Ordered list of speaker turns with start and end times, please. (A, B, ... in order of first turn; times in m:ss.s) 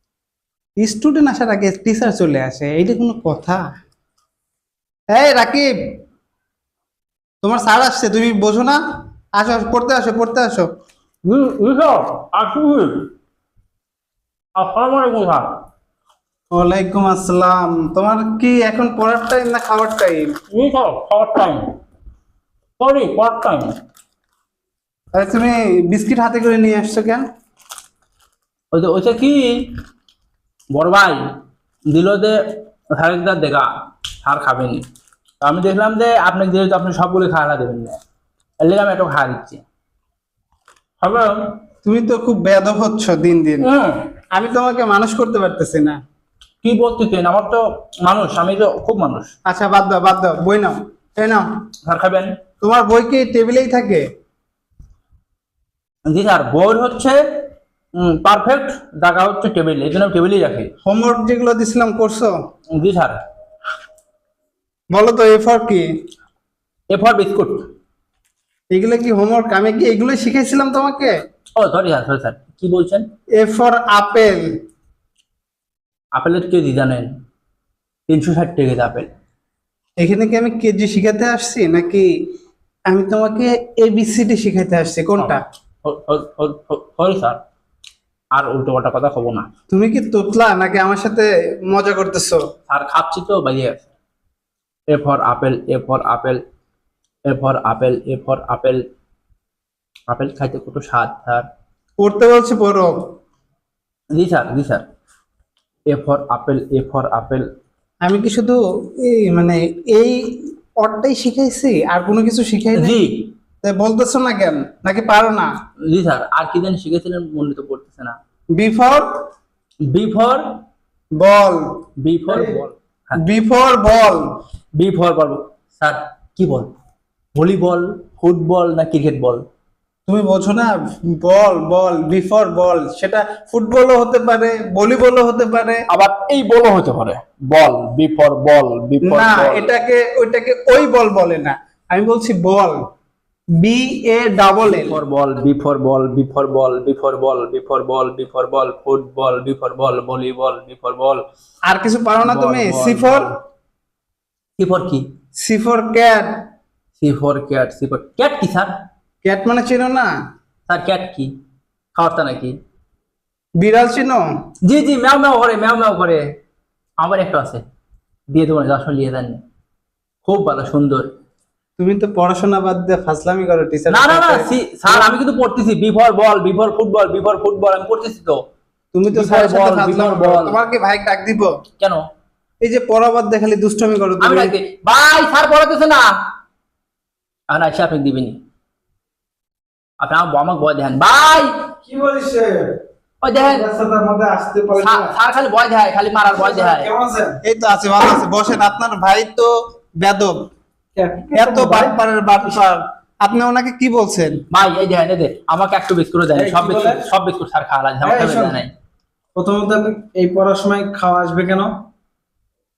0:00.8-0:03.6 A
0:05.1-0:05.7 A
0:07.4-0:08.8 A
0:09.4-0:10.7 A
0:11.2-0:13.0 B
0:14.6-0:15.5 B
0:16.5-0:20.3 A
0:20.5-0:21.6 B
0:22.8-0:23.7 B
0:25.1-0:27.2 A
0:28.7-0:29.7 B
0:30.7-0:31.2 B
0:31.9-0:32.4 B
0:33.0-0:33.7 B
0:34.2-0:34.8 B
0:35.4-0:38.0 B
0:38.6-0:39.6 B
0:41.0-0:41.4 B
0:41.8-0:43.7 A
0:43.6-0:44.1 B
0:44.3-0:46.0 A
0:46.6-0:49.3 B
0:49.4-0:51.4 A
0:51.8-0:52.3 B
0:52.6-0:54.0 A
0:56.1-0:57.2 B
0:58.0-1:00.7 B
1:00.8-1:02.3 A
1:02.8-1:03.1 B
1:04.9-1:05.9 A
1:06.9-1:07.6 B
1:08.7-1:11.1 A
1:11.6-1:13.0 B
1:13.4-1:14.4 A
1:16.1-1:17.1 B
1:18.1-1:19.1 B
1:20.0-1:22.1 A
1:22.9-1:25.4 A
1:25.2-1:27.4 B
1:28.3-1:29.5 B
1:29.7-1:32.4 A
1:32.7-1:33.9 B
1:34.9-1:36.4 B
1:37.3-1:38.8 B
1:40.1-1:41.4 B
1:42.0-1:42.9 A
1:44.1-1:44.8 B
1:45.9-1:47.4 B
1:48.0-1:53.0 A
1:52.8-1:53.3 B
1:53.6-1:55.5 A
1:55.9-1:58.2 B
1:58.6-1:59.0 A
1:59.9-2:00.4 B
2:01.2-2:01.6 A
2:02.0-2:03.2 B
2:03.2-2:04.2 A
2:04.8-2:06.7 B
2:07.3-2:09.4 B
2:10.1-2:15.8 A
2:15.9-2:19.7 B
2:19.0-2:22.8 A
2:23.6-2:25.0 A
2:24.6-2:31.2 B
2:31.7-2:33.3 A
2:32.2-2:33.3 B
2:34.6-2:35.0 B
2:35.4-2:36.3 A
2:37.0-2:38.7 B
2:39.2-2:40.1 A
2:40.7-2:41.3 B
2:42.0-2:42.5 B
2:43.6-2:44.2 A
2:44.6-2:46.2 B
2:47.0-2:47.6 B
2:48.3-2:49.4 B
2:50.2-2:51.1 B
2:51.8-2:55.1 A
2:53.9-2:58.4 B
2:58.9-3:01.5 A
2:59.1-3:00.6 B
3:02.6-3:04.5 A
3:04.2-3:06.1 B
3:07.5-3:08.4 B
3:10.0-3:11.5 B
3:11.8-3:12.7 C
3:13.2-3:13.6 B
3:13.4-3:15.2 C
3:14.8-3:16.9 B
3:16.3-3:17.4 C
3:17.4-3:20.3 A
3:21.0-3:22.0 C
3:21.3-3:24.3 A
3:24.5-3:28.7 B
3:26.3-3:27.1 C
3:28.0-3:28.6 C
3:29.4-3:31.7 C